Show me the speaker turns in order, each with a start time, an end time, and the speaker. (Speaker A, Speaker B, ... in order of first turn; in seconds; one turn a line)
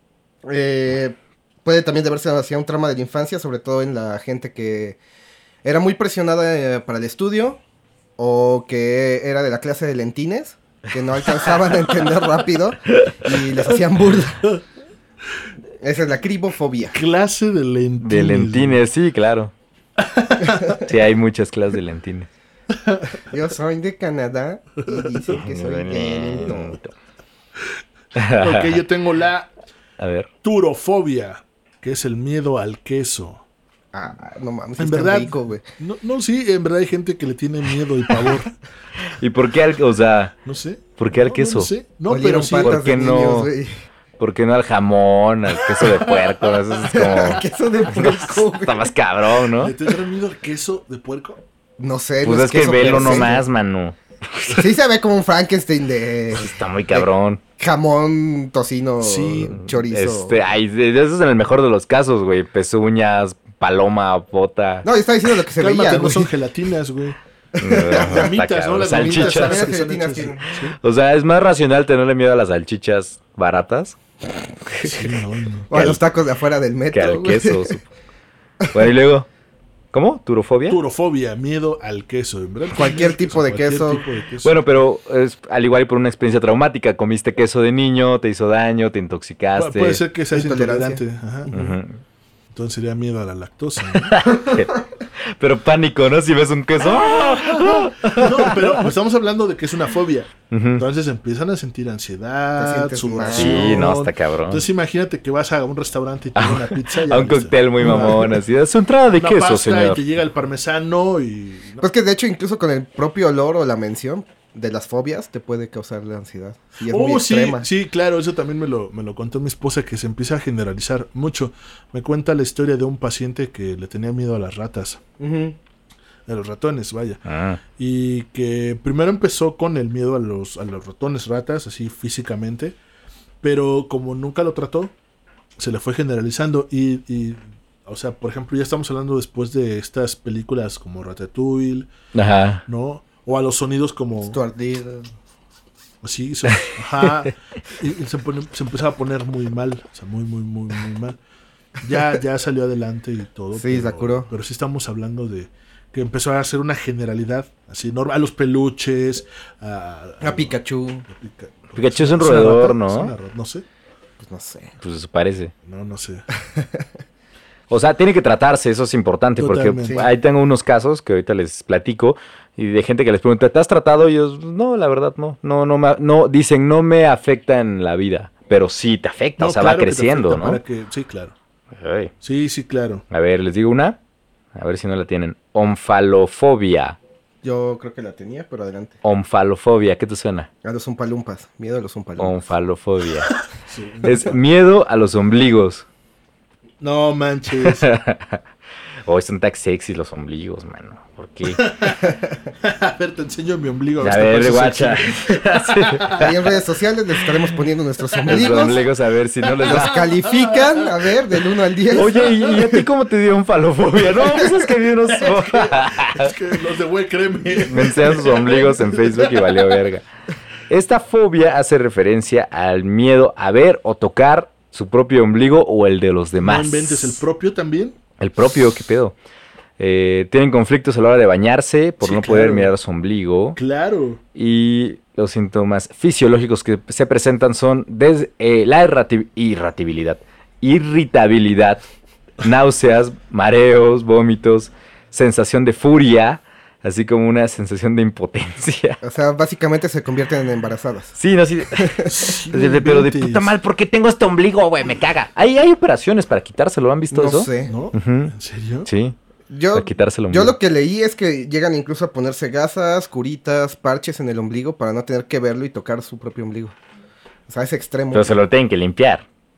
Speaker A: 0.5-5.0
Speaker A: 5.6-7.6
Speaker A: 8.2-14.5
Speaker A: 15.8-17.0
Speaker B: 16.9-18.8
Speaker C: 18.0-19.5
Speaker B: 20.0-20.7
Speaker A: 20.4-20.8
Speaker C: 20.8-22.3
Speaker B: 22.9-23.1
Speaker A: 23.3-26.8
Speaker C: 25.3-26.9
Speaker C: 28.1-28.8
Speaker B: 28.4-29.5
Speaker C: 30.0-30.3
Speaker B: 30.4-33.4
Speaker A: 33.9-35.7
Speaker B: 34.8-38.6
Speaker C: 39.2-40.3
Speaker B: 40.5-42.8
Speaker C: 41.0-41.7
Speaker A: 42.1-43.8
Speaker C: 42.6-43.5
Speaker C: 44.2-49.7
Speaker B: 45.7-47.2
Speaker A: 46.9-48.9
Speaker B: 49.6-51.4
Speaker A: 51.8-53.4
Speaker C: 52.2-54.6
Speaker B: 52.7-53.3
Speaker A: 54.5-57.1
Speaker C: 56.3-57.4
Speaker A: 57.6-60.4
Speaker B: 59.0-59.6
Speaker C: 59.6-64.9
Speaker A: 64.8-66.3
Speaker B: 65.6-67.2
Speaker A: 67.6-68.3
Speaker C: 67.6-69.7
Speaker B: 67.9-70.8
Speaker A: 69.0-70.6
Speaker C: 70.8-74.0
Speaker C: 74.7-75.0
Speaker B: 74.8-75.7
Speaker A: 75.7-77.8
Speaker C: 75.7-76.0
Speaker C: 76.9-77.9
Speaker C: 78.7-79.3
Speaker C: 79.9-80.8
Speaker B: 80.7-84.5
Speaker A: 82.7-84.0
Speaker C: 84.4-90.0
Speaker B: 89.5-91.5
Speaker A: 90.3-91.0
Speaker C: 91.5-92.0
Speaker B: 92.5-94.4
Speaker C: 93.9-94.8
Speaker C: 95.4-98.8
Speaker B: 96.9-108.4
Speaker C: 100.5-100.8
Speaker A: 102.6-103.9
Speaker C: 103.3-104.6
Speaker C: 106.4-110.0
Speaker B: 109.2-111.8
Speaker A: 111.8-117.7
Speaker B: 116.8-125.0
Speaker A: 125.2-125.6
Speaker B: 126.3-127.2
Speaker C: 127.3-127.6
Speaker B: 127.8-132.8
Speaker B: 133.4-134.9
Speaker B: 135.6-141.9
Speaker C: 142.1-142.6
Speaker B: 142.7-144.4
Speaker A: 144.3-145.1
Speaker B: 146.0-151.2
Speaker B: 151.8-160.6
Speaker A: 153.6-154.3
Speaker A: 160.2-161.1
Speaker B: 161.1-163.7
Speaker C: 161.8-163.1
Speaker A: 164.2-164.8
Speaker C: 164.8-165.5
Speaker B: 165.7-166.3
Speaker A: 166.5-166.8
Speaker C: 167.7-180.6
Speaker B: 169.4-170.0
Speaker B: 179.4-181.3
Speaker C: 181.8-182.1
Speaker B: 182.2-183.0
Speaker C: 183.1-184.0
Speaker C: 184.6-187.0
Speaker A: 187.4-188.9
Speaker C: 189.0-190.5
Speaker A: 190.6-192.4
Speaker C: 192.2-193.3
Speaker B: 193.3-194.3
Speaker C: 194.0-195.9
Speaker B: 196.8-197.9
Speaker C: 197.6-198.4
Speaker C: 199.1-201.6
Speaker B: 201.5-202.0
Speaker A: 202.0-202.4
Speaker B: 202.6-206.3
Speaker C: 204.0-206.3
Speaker A: 206.2-208.8
Speaker B: 208.2-208.7
Speaker C: 208.3-210.0
Speaker B: 209.4-211.3
Speaker A: 209.6-212.8
Speaker B: 211.9-212.7
Speaker C: 212.0-216.3
Speaker B: 215.2-219.8
Speaker C: 217.7-220.1
Speaker C: 220.7-227.2
Speaker B: 226.4-228.0
Speaker C: 228.2-229.2
Speaker C: 229.8-233.6
Speaker B: 232.0-232.7
Speaker B: 233.6-234.2
Speaker C: 234.3-241.8
Speaker C: 242.4-249.0
Speaker A: 249.0-251.2
Speaker C: 251.2-258.3
Speaker A: 251.7-252.1
Speaker B: 252.1-253.5
Speaker A: 257.1-257.8
Speaker B: 257.6-258.9
Speaker C: 258.9-259.2
Speaker A: 259.5-266.8
Speaker C: 259.7-260.6
Speaker A: 267.5-268.4
Speaker C: 268.1-269.2